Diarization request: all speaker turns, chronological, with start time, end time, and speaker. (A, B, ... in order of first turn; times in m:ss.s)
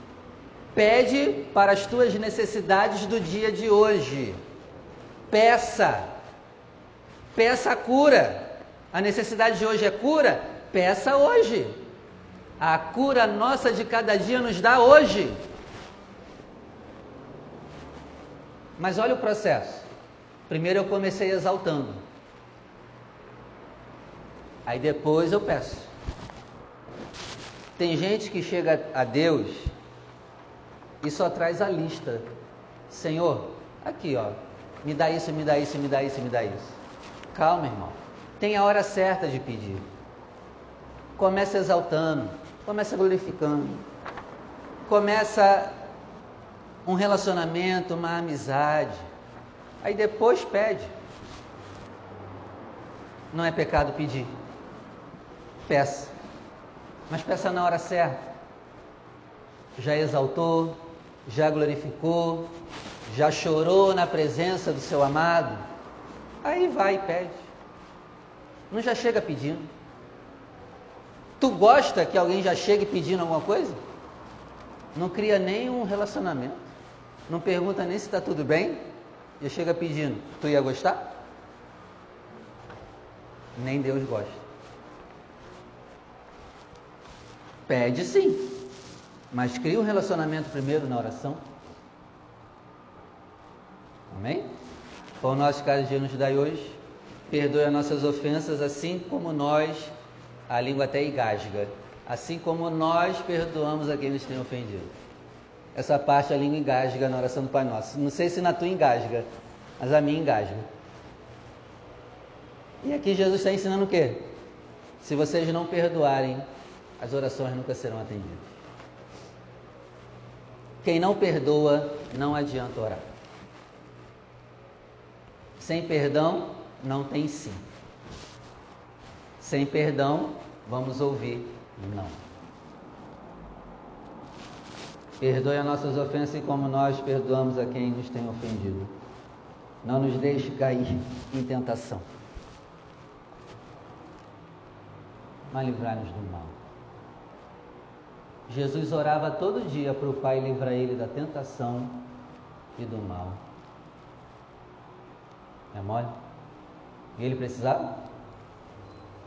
0:00.8-0:04.4 A
0:05.3-0:06.1 A
0:07.4-0:11.8 A
0:12.6-0:15.4 A
0:18.8-0:19.9 A
0:20.5-0:22.0 A
0:24.6-0:25.9 A
0:27.8-0:29.7 A
0:31.0-0:32.3 A
0:32.9-0:36.8 A
0:37.3-0:39.9 A
0:41.2-0:43.8 A
0:44.9-0:45.8 A
0:46.9-0:49.1 A
0:49.8-0:50.9 A
0:53.3-0:54.3 A
0:55.7-0:56.1 A
0:57.1-0:58.2 A
0:59.8-1:02.5 A
1:03.1-1:05.6 A
1:06.4-1:07.4 A
1:08.7-1:09.7 A
1:11.4-1:13.8 A
1:15.0-1:16.7 A
1:17.3-1:18.8 A
1:19.4-1:21.1 A
1:23.6-1:24.4 A
1:27.7-1:28.6 A
1:29.3-1:31.4 A
1:34.1-1:34.5 A
1:35.2-1:39.9 A
1:40.5-1:44.9 A
1:45.8-1:49.3 A
1:49.8-1:50.7 A
1:52.8-1:54.4 A
1:55.0-1:56.5 A
1:57.0-1:58.6 A
2:00.8-2:03.1 A
2:05.6-2:07.6 A
2:09.4-2:12.2 A
2:15.2-2:19.0 A
2:19.8-2:22.1 A
2:25.5-2:26.6 A
2:28.5-2:32.1 A
2:32.8-2:33.4 A
2:35.7-2:36.1 A
2:37.2-2:38.0 A